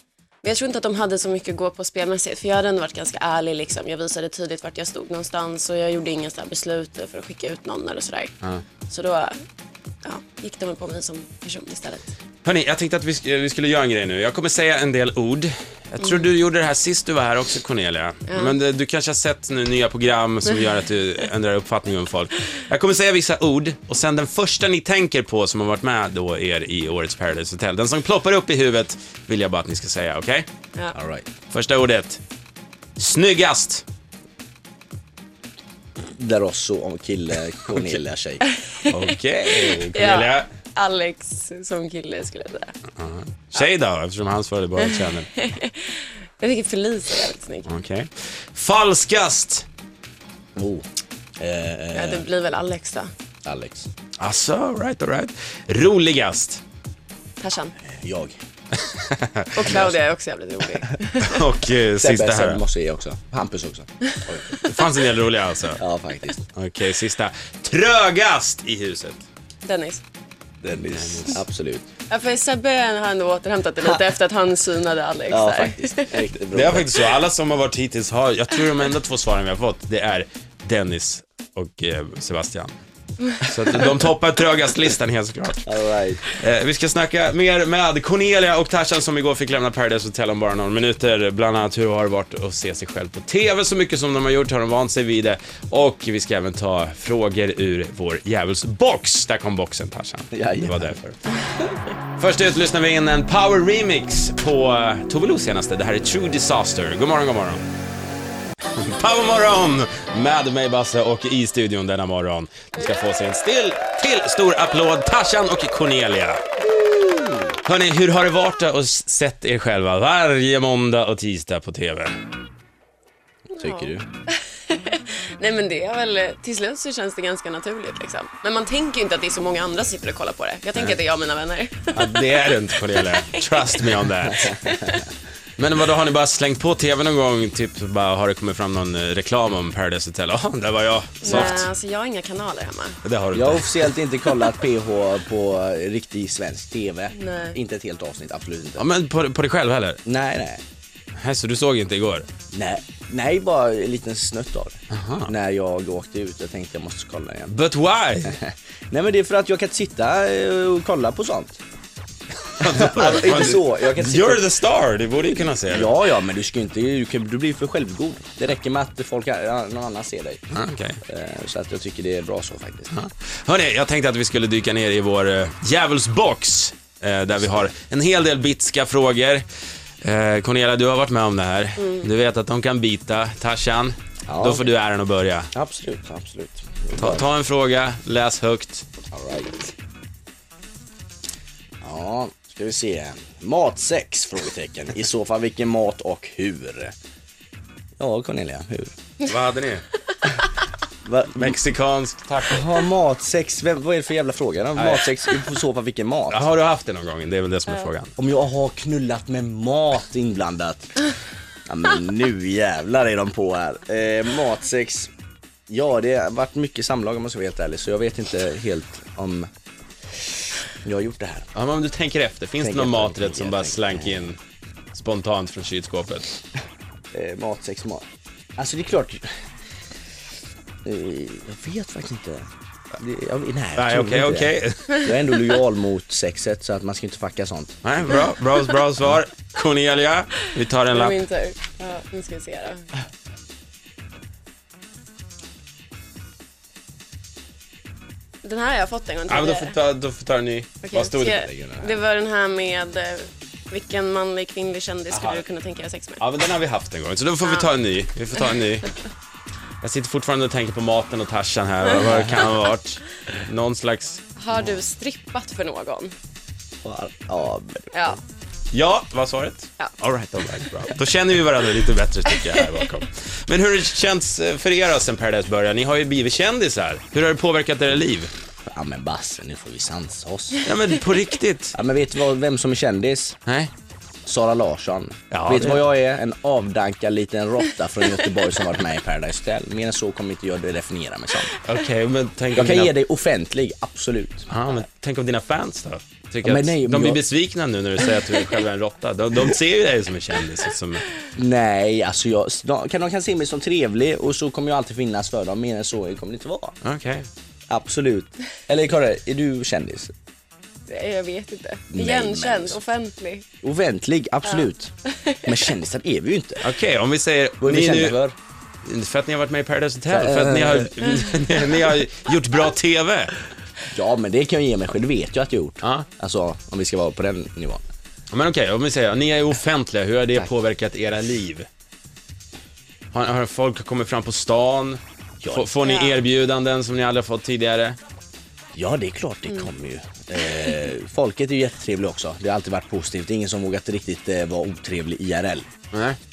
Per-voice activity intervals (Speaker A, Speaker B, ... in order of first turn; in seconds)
Speaker A: 0.4-8.3, 8.9-9.4, 10.0-12.1, 18.3-18.6, 39.5-42.7, 44.8-47.7, 51.9-53.1, 57.4-57.7, 59.5-61.5, 69.6-70.0, 72.1-76.2, 123.5-133.9, 134.6-135.0, 141.2-143.0, 147.1-147.6, 181.8-182.1, 240.9-242.9, 248.4-249.8, 250.8-256.2, 257.4-257.7, 264.4-266.1, 267.9-268.2, 310.9-313.4, 314.5-315.6, 335.8-336.2
Speaker B: 12.4-30.5, 31.5-32.2, 33.0-33.8, 38.9-40.5, 42.9-45.3, 47.6-49.7, 54.2-56.6, 58.8-59.9, 61.2-62.6, 64.6-65.8, 66.5-69.2, 70.9-71.4, 76.5-82.8, 83.4-85.7, 86.3-101.2, 102.2-107.7, 108.7-116.4, 117.6-122.1, 131.9-134.6, 135.6-141.7, 143.0-143.9, 148.8-150.0, 151.1-152.3, 154.9-155.3, 157.5-158.4, 162.5-165.9, 170.5-171.0, 172.9-179.4, 180.0-185.5, 186.9-188.9, 199.2-199.8, 201.3-202.7, 204.8-205.1, 206.3-208.1, 221.5-224.4, 224.9-226.2, 233.8-235.0, 237.8-241.2, 249.3-251.4, 255.1-255.4, 256.2-258.9, 259.8-264.2, 268.7-278.3, 280.6-281.8, 283.4-283.7, 285.3-285.9, 291.6-292.9, 294.5-301.1, 306.8-307.3, 316.6-318.2, 318.8-323.4, 325.8-326.1, 328.3-331.7, 333.1-338.0, 345.9-346.2
Speaker C: 30.9-31.3, 36.2-38.4, 50.5-50.8, 51.4-52.3, 53.4-53.9, 57.8-58.4, 62.0-64.6, 65.8-66.4, 70.6-71.9, 75.3-77.1, 85.6-86.2, 100.3-101.0, 116.8-117.5, 123.6-124.0, 134.3-135.0, 141.2-141.6, 143.3-148.8, 150.1-150.6, 152.5-157.6, 158.2-161.6, 162.6-164.4, 165.7-170.4, 171.1-172.9, 184.3-184.7, 185.5-187.3, 189.1-189.7, 191.8-196.9, 198.0-198.9, 201.0-201.6, 202.5-206.4, 208.2-211.0, 211.7-215.1, 215.7-219.5, 220.8-221.4, 222.6-224.3, 227.1-228.0, 228.6-229.2, 230.8-237.8, 251.2-252.0, 262.0-262.4, 264.5-264.8, 266.8-268.1, 278.7-280.6, 281.7-283.4, 284.2-291.5, 292.5-294.5, 296.4-297.2, 301.4-306.8, 307.7-310.1, 311.9-312.8, 313.6-314.9, 315.4-316.6, 317.6-318.4, 320.1-320.9, 323.9-327.8, 335.4-335.7, 338.7-345.7